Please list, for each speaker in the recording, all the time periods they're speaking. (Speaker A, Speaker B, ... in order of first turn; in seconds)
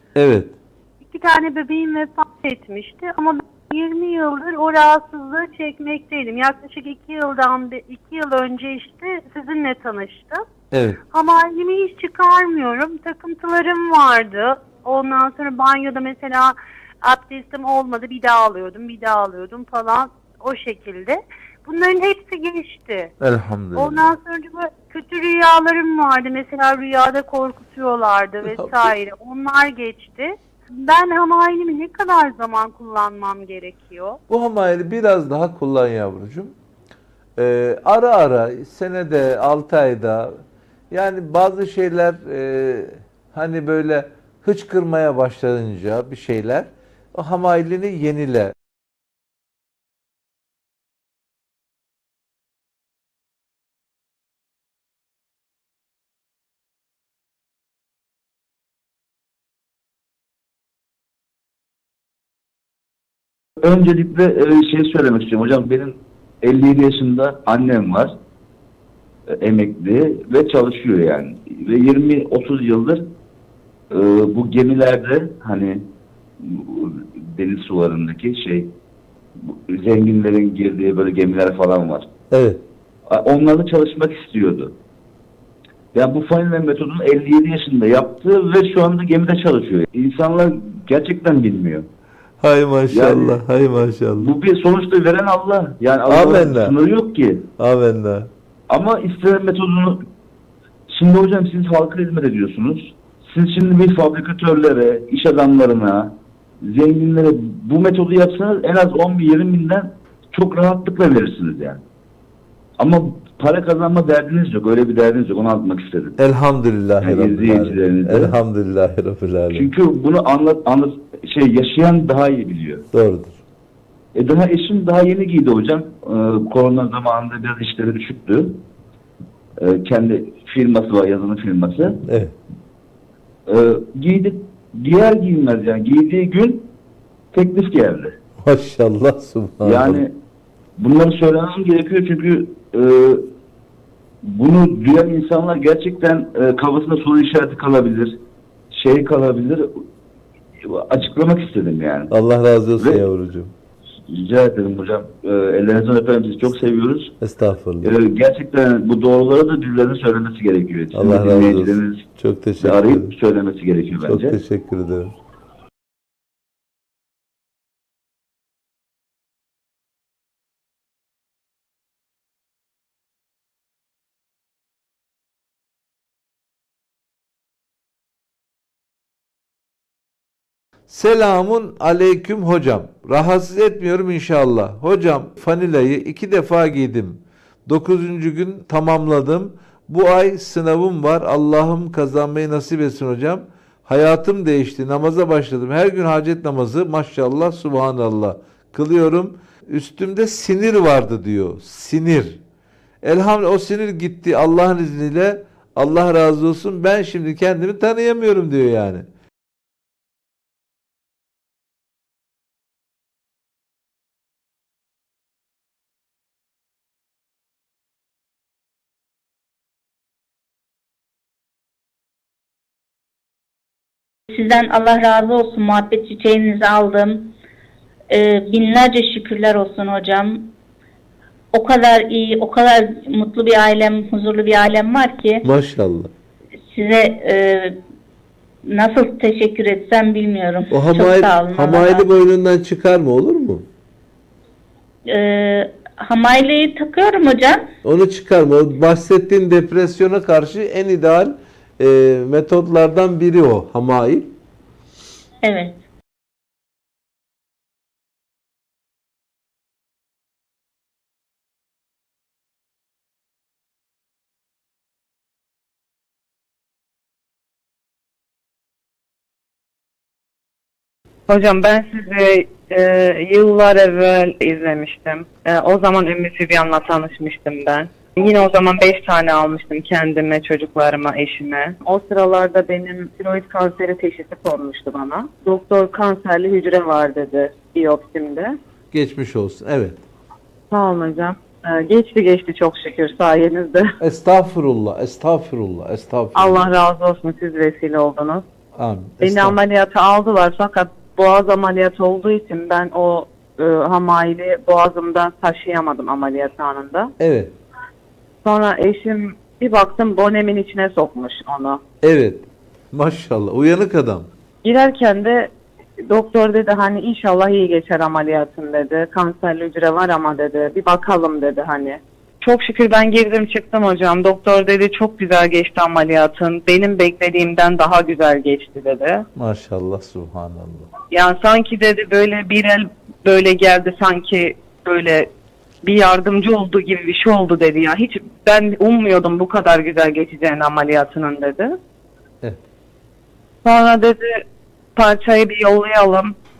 Speaker A: 0.2-0.5, 10.7-11.0, 23.2-24.1, 34.3-36.5, 37.4-40.3, 40.9-48.5, 82.3-82.6, 92.4-94.3, 96.1-96.7, 97.6-98.3, 116.2-119.7, 122.9-123.4, 132.1-132.3, 138.4-140.0, 152.1-153.5, 157.2-157.9, 160.9-163.1, 164.1-165.2, 180.9-202.4, 203.0-209.1, 235.4-236.1, 240.7-243.7, 247.8-254.3, 288.9-290.0, 294.0-296.7, 298.8-299.6, 307.2-307.5, 312.0-314.3, 329.4-330.9
Speaker B: 1.1-10.4, 11.1-23.1, 23.8-34.2
Speaker C: 63.6-68.1, 69.3-73.0, 73.9-75.8, 76.4-78.7, 79.4-82.1, 83.1-84.7, 85.9-91.9, 92.9-93.4, 94.2-97.5, 98.7-100.0, 100.9-111.8, 112.8-116.2, 117.0-118.4, 119.5-122.8, 124.2-128.6, 129.6-132.0, 133.5-136.7, 137.3-138.2, 139.6-140.1, 140.8-143.2, 144.2-148.2, 148.7-149.7, 150.6-152.1, 152.8-153.0, 154.1-157.1, 157.8-162.1, 162.6-164.4, 271.3-279.4, 280.1-280.7, 281.8-284.4, 287.6-288.2, 296.4-296.9, 299.2-299.7, 300.5-301.5
Speaker D: 224.3-227.3, 228.1-230.5, 231.5-235.5, 236.7-237.8, 238.7-242.1, 245.1-247.7, 255.4-255.8
Speaker E: 273.8-274.2, 278.8-281.8, 283.5-288.5, 290.7-291.3, 291.8-293.8, 297.0-298.4, 299.7-307.1, 308.4-311.8, 314.6-315.5, 316.1-329.2, 331.1-335.3, 335.8-341.7, 343.6-344.4, 345.0-346.3